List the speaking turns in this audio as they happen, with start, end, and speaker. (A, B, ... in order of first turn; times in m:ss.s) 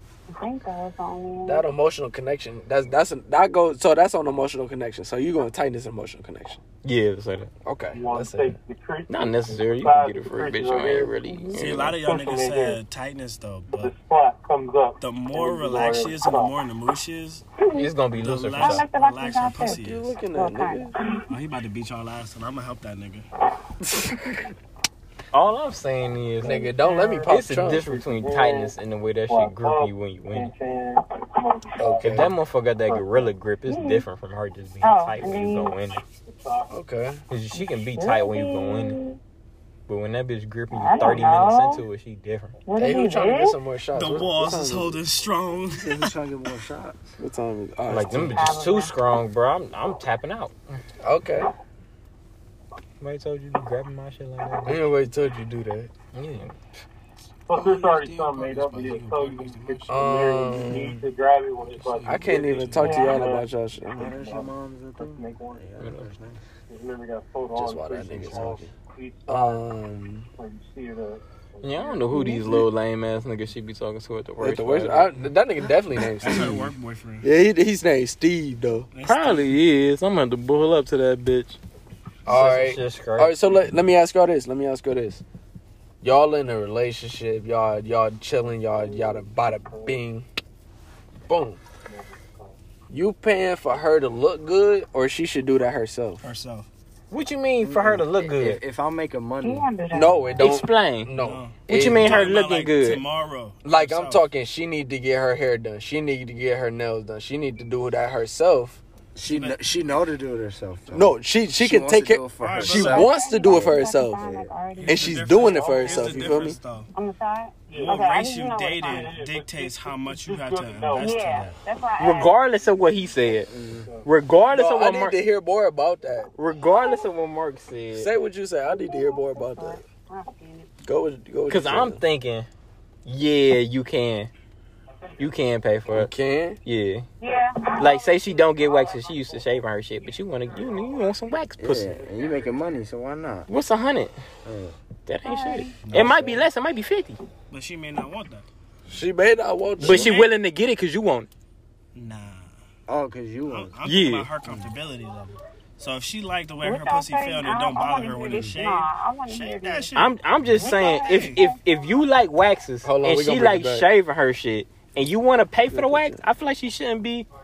0:00.4-0:01.6 A
0:01.5-0:06.6 B
0:06.8-0:07.5 C
0:07.6-0:08.6 B
0:07.9-0:11.2 D
0:09.1-0:12.0 C
0:11.3-0:11.7 A
0:11.6-0:13.9 E
0:11.9-0:12.8 D
0:13.7-0:16.5 D
0:15.0-0:17.4 E
0:17.6-0:17.9 A
0:17.7-0:18.9 C
0:18.2-0:20.1 E
0:18.6-0:19.8 A
0:19.7-0:20.9 B
0:20.3-0:21.2 A
0:21.3-0:23.3 E
0:25.3-0:26.7 C
0:26.4-0:27.8 B
0:26.4-0:26.9 A
0:26.6-0:28.8 D
0:27.3-0:30.5 C
0:29.3-0:32.1 D
0:31.8-0:32.4 B
0:32.0-0:36.0 C
0:33.7-0:34.0 A
0:34.8-0:35.8 A
0:36.3-0:36.7 D
0:36.7-0:37.2 B
0:37.3-0:39.0 C
0:37.6-0:39.2 A
0:39.9-0:42.6 C
0:40.7-0:41.8 A
0:42.7-0:43.6 A
0:42.8-0:45.0 B
0:43.9-0:46.1 E
0:45.7-0:47.2 F
0:47.2-0:48.7 B
0:47.9-0:50.6 C
0:48.3-0:49.0 A
0:51.0-0:51.5 B
0:53.0-0:54.8 C
0:54.6-0:55.9 B
0:56.1-0:56.6 C
0:57.5-1:02.4 D
0:57.5-1:01.0 E
0:59.9-1:01.0 B
1:01.8-1:03.0 E
1:02.1-1:04.2 B
1:02.8-1:03.3 A
1:03.0-1:03.4 D
1:04.0-1:06.4 F
1:04.0-1:05.7 D
1:05.8-1:06.1 C
1:06.7-1:09.7 D
1:07.6-1:08.7 B
1:08.0-1:08.7 F
1:09.3-1:10.3 B
1:10.4-1:12.2 D
1:11.6-1:15.1 C
1:12.1-1:12.4 A
1:14.4-1:16.7 B
1:16.2-1:17.3 E
1:17.2-1:18.9 B
1:18.9-1:19.5 E
1:19.0-1:21.6 C
1:22.3-1:25.2 B
1:22.3-1:23.3 C
1:26.0-1:30.3 B
1:28.7-1:30.0 D
1:31.3-1:31.6 B
1:31.9-1:32.5 D
1:32.9-1:36.2 B
1:36.2-1:36.7 E
1:37.1-1:38.6 C
1:37.6-1:39.7 F
1:39.4-1:40.5 A
1:39.9-1:42.3 B
1:40.4-1:41.1 C
1:41.2-1:44.2 E
1:41.7-1:43.0 C
1:43.6-1:48.8 B
1:49.2-1:54.5 F
1:49.3-1:49.7 E
1:50.9-1:54.2 B
1:52.4-1:53.1 E
1:52.8-1:55.4 A
1:54.8-1:56.9 E
1:54.8-1:56.6 B
1:55.8-1:56.3 F
1:56.9-1:59.1 A
1:57.7-1:58.0 D
1:57.8-2:01.6 E
1:58.8-2:01.2 D
2:01.0-2:02.4 A
2:02.0-2:03.5 C
2:03.1-2:04.1 D
2:03.5-2:03.9 F
2:04.0-2:05.2 C
2:04.5-2:06.3 B
2:06.4-2:08.1 C
2:07.9-2:09.8 B
2:08.7-2:10.7 A
2:10.8-2:12.0 B
2:11.5-2:12.5 C
2:13.0-2:14.3 C
2:15.2-2:16.1 C
2:15.9-2:16.6 B
2:16.6-2:17.1 C
2:17.2-2:19.4 A
2:17.8-2:22.0 C
2:21.6-2:23.5 F
2:23.5-2:24.2 C
2:24.4-2:24.8 F
2:25.1-2:27.2 C
2:25.2-2:25.8 A
2:25.9-2:26.4 F
2:27.5-2:28.5 E
2:28.9-2:30.2 B
2:29.8-2:31.3 C
2:29.8-2:30.3 E
2:31.9-2:32.5 E
2:32.9-2:33.8 F
2:33.5-2:41.4 E
2:33.8-2:34.3 C
2:34.4-2:34.7 F
2:36.6-2:39.9 A
2:40.0-2:47.3 C
2:40.6-2:41.9 A
2:42.8-2:43.9 B
2:45.7-2:46.2 B